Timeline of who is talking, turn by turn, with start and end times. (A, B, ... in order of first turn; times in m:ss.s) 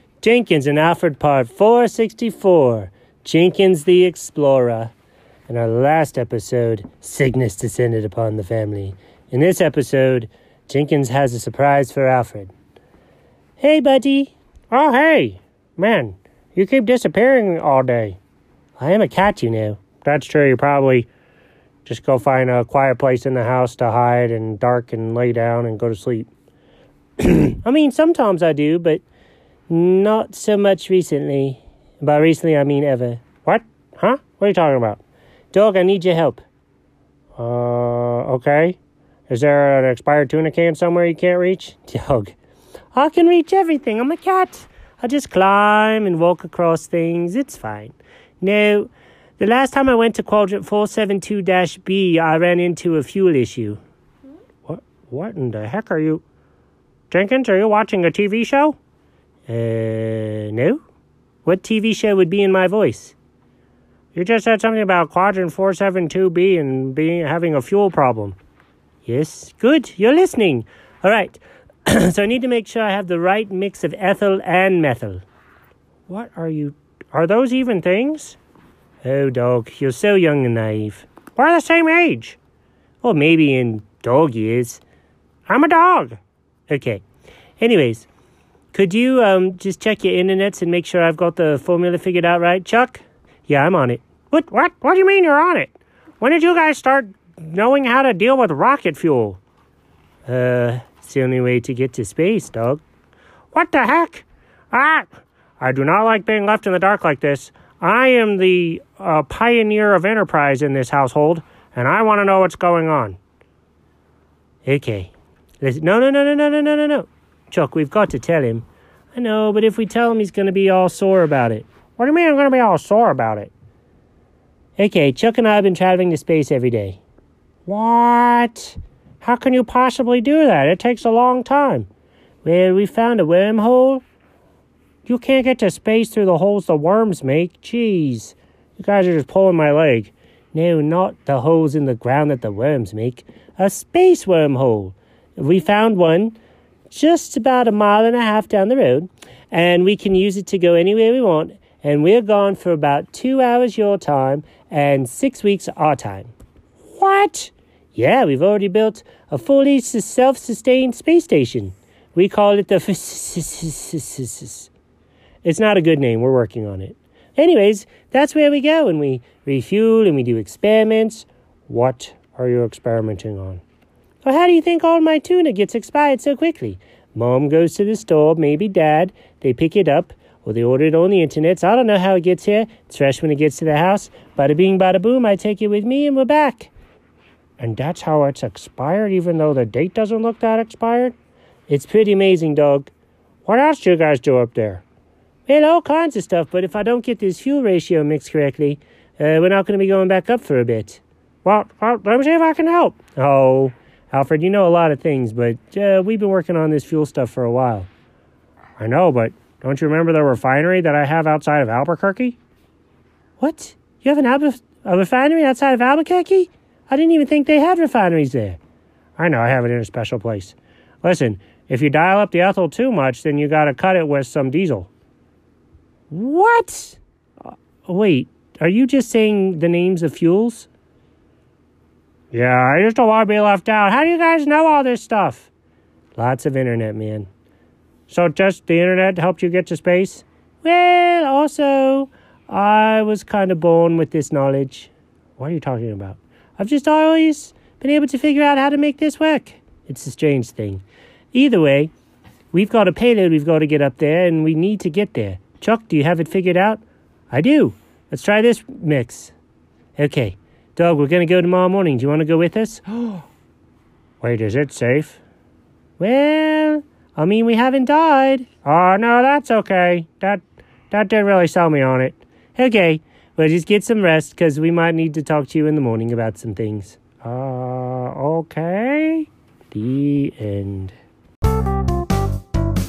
0:00.2-0:04.9 A
0:05.5-0:12.5 A
0:13.6-0:18.2 A
0:18.8-0:21.1 A
0:21.8-0:26.3 A
0:27.2-0:29.0 A
0:29.7-0:36.4 A
0:37.4-0:38.8 A
0:39.3-0:42.4 A
0:42.9-0:53.8 A
0:54.6-0:56.2 A
0:57.1-0:58.8 A
0:59.5-1:00.8 A
1:01.4-1:03.2 A
1:04.1-1:08.4 A
1:09.0-1:15.2 A
1:16.1-1:18.4 A
1:19.0-1:22.4 A
1:23.0-1:24.8 A
1:25.5-1:27.0 A
1:27.6-1:28.1 A
1:28.7-1:39.4 A
1:40.3-1:42.8 A
1:43.5-1:45.1 A
1:45.6-1:53.2 A
1:54.6-2:03.5 A
2:04.8-2:07.0 A
2:07.7-2:11.9 A
2:12.4-2:14.0 A
2:15.0-2:26.4 A
2:26.9-2:36.3 A
2:36.8-2:44.7 A
2:45.4-2:53.6 A
2:54.2-3:06.7 A
3:07.6-3:11.1 A
3:11.7-3:12.9 A
3:13.4-3:14.8 A
3:15.5-3:27.9 A
3:28.8-3:32.4 A
3:33.4-3:38.6 A
3:39.2-3:44.9 A
3:46.1-3:50.7 A
3:52.3-3:55.5 A
3:56.2-3:57.3 A
3:58.1-4:11.9 A
4:12.5-4:19.3 A
4:20.0-4:23.2 A
4:24.2-4:25.2 A
4:26.0-4:41.0 A